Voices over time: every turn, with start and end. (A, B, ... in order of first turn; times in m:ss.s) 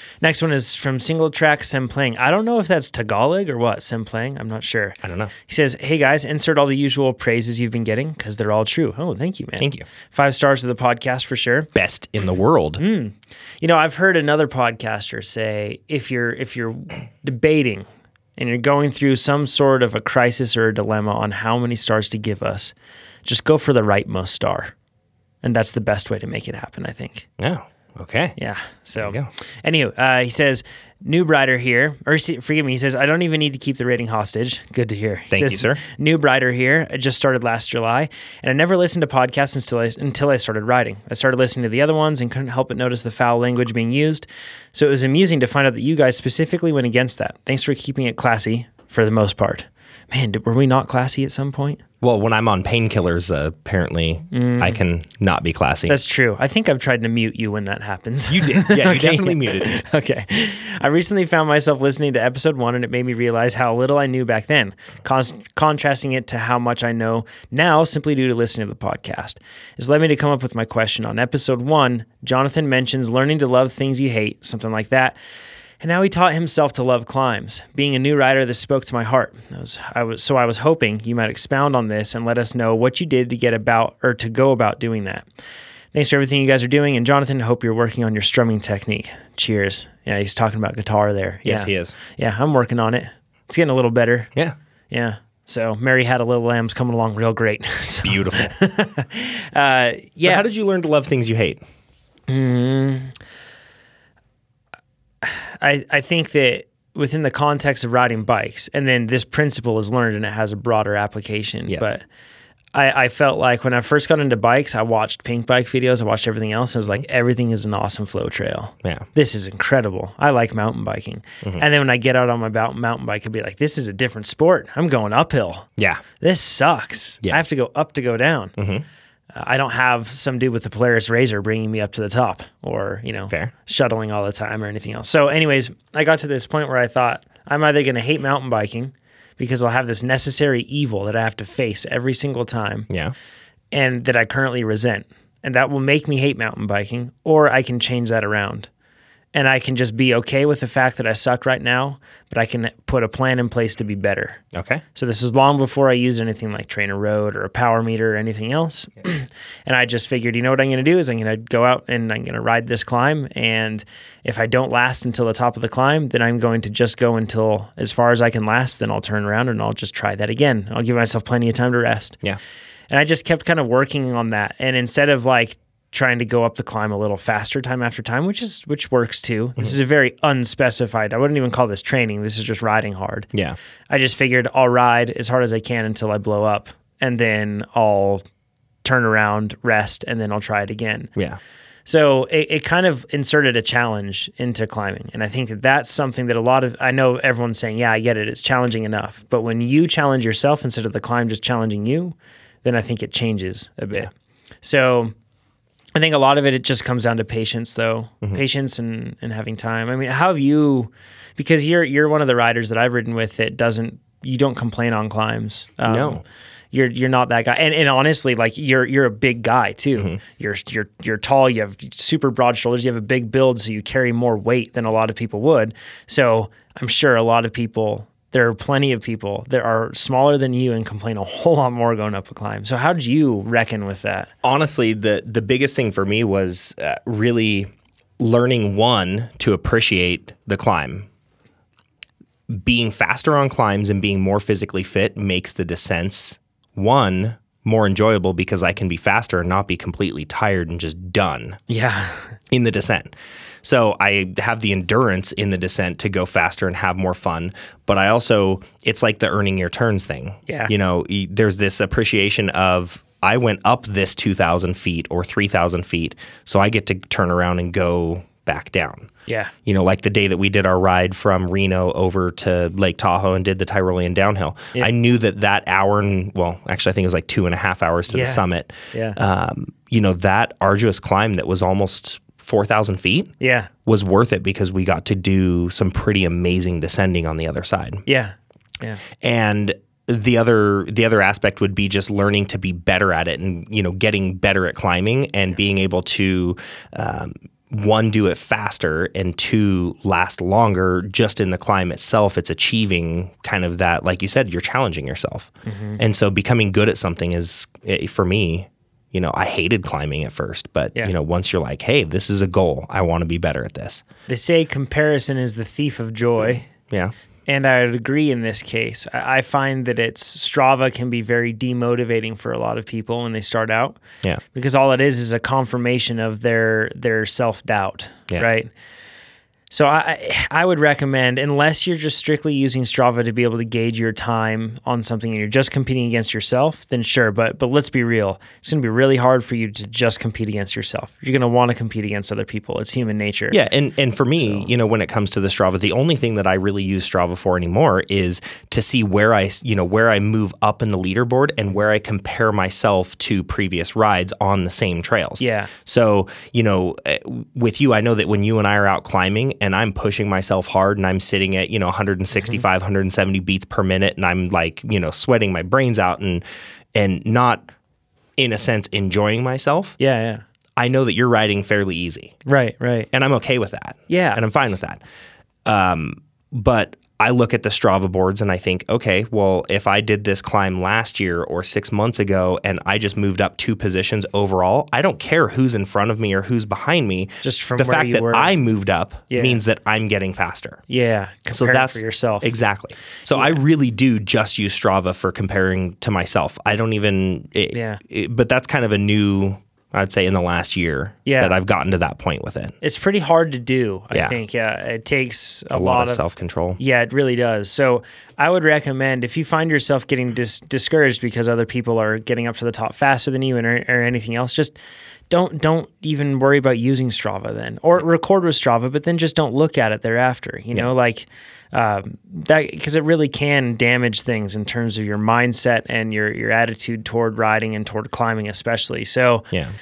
0:00.2-0:11.7 A
0:05.0-0:05.3 B
0:09.6-0:09.9 B
0:11.7-0:12.8 B
0:12.8-0:17.8 A
0:18.4-0:22.7 A
0:23.2-0:24.7 A
0:25.4-0:27.3 A
0:27.4-0:28.4 B
0:28.4-0:51.8 A
0:29.0-0:29.3 B
0:35.3-0:35.8 B
0:52.0-0:56.0 B
0:54.3-0:54.8 A
0:55.9-1:15.2 A
0:58.3-0:59.7 B
1:15.8-1:25.2 A
1:25.9-1:34.3 A
1:31.4-1:32.0 B
1:34.9-1:40.4 A
1:38.0-1:38.5 B
1:40.2-1:41.6 B
1:42.3-1:43.1 A
1:45.2-1:52.0 A
1:52.7-2:05.7 A
2:05.8-2:06.0 B
2:06.2-2:08.5 A
2:08.6-2:08.8 B
2:09.3-2:22.9 A
2:23.7-2:28.7 A
2:29.3-2:34.4 A
2:34.5-2:34.8 B
2:34.9-2:52.2 A
2:52.9-3:03.3 A
3:03.9-3:08.2 A
3:08.8-3:11.1 A
3:11.8-3:24.1 A
3:24.6-3:25.1 A
3:25.9-3:54.3 A
3:35.8-3:36.2 B
3:54.4-4:01.1 B
4:02.5-4:11.6 B
4:11.7-4:12.2 A
4:12.5-4:13.1 B
4:13.6-4:29.1 B
4:20.5-4:20.7 A
4:29.3-4:29.5 A
4:29.6-4:43.3 B
4:38.1-4:39.2 A
4:43.4-4:43.7 A
4:43.8-4:48.0 B
4:48.0-4:49.0 A
4:49.2-5:14.0 B
5:05.6-5:06.0 A
5:14.3-5:16.7 A
5:17.5-5:24.0 A
5:24.5-5:28.7 A
5:29.7-5:43.6 A
5:43.5-6:06.4 B
5:44.4-5:44.7 A
5:55.4-5:55.7 A
6:06.9-6:07.7 B
6:08.4-6:10.0 B
6:10.0-6:10.4 A
6:10.8-6:12.3 B
6:12.4-6:13.1 A
6:13.1-6:15.0 B
6:14.1-6:14.4 A
6:15.6-6:30.8 B
6:27.4-6:28.5 A
6:29.3-6:29.6 A
6:30.9-6:32.5 A
6:31.5-6:42.8 B
6:33.3-6:33.6 A
6:37.7-6:38.0 A
6:41.2-6:41.6 A
6:42.8-6:46.2 A
6:44.1-6:44.4 B
6:45.7-6:46.8 B
6:46.8-6:54.8 A
6:55.3-7:09.5 A